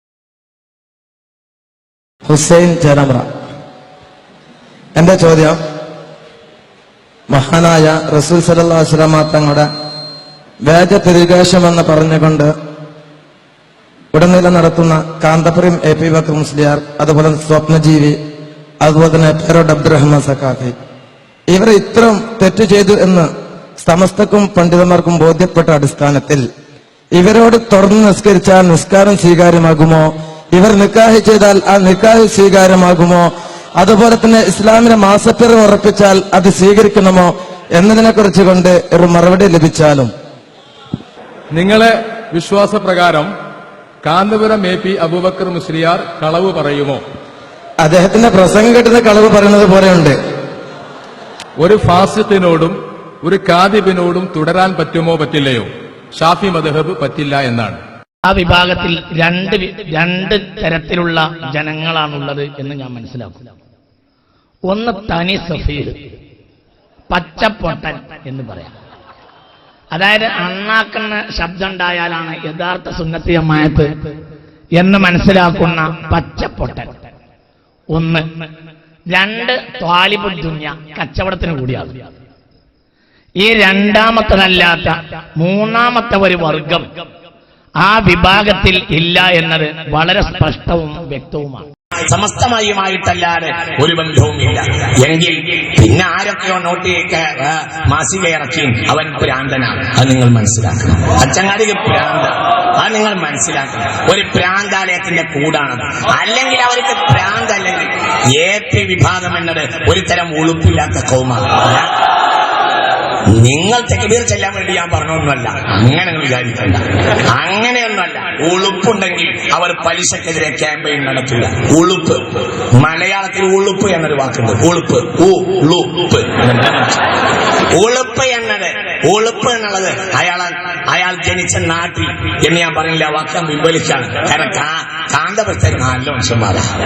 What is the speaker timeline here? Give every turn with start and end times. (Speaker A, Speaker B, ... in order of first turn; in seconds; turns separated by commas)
Speaker A: 2.3-3.2, Speaker A: 5.0-5.6, Speaker A: 7.3-9.7, Speaker A: 10.6-12.5, Speaker A: 14.1-18.2, Speaker A: 18.8-20.7, Speaker A: 21.5-23.3, Speaker A: 23.8-26.5, Speaker A: 27.1-40.1, Speaker B: 41.5-43.3, Speaker B: 44.0-47.0, Speaker A: 47.8-50.1, Speaker B: 51.6-57.8, Speaker C: 58.2-63.4, Speaker C: 64.7-66.0, Speaker C: 67.1-68.7, Speaker C: 69.9-73.9, Speaker C: 74.8-76.9, Speaker C: 77.9-78.2, Speaker C: 79.1-82.0, Speaker C: 83.4-86.9, Speaker C: 87.8-91.7, Speaker D: 92.1-111.8, Speaker D: 113.4-122.2, Speaker D: 122.7-127.0, Speaker D: 127.7-136.6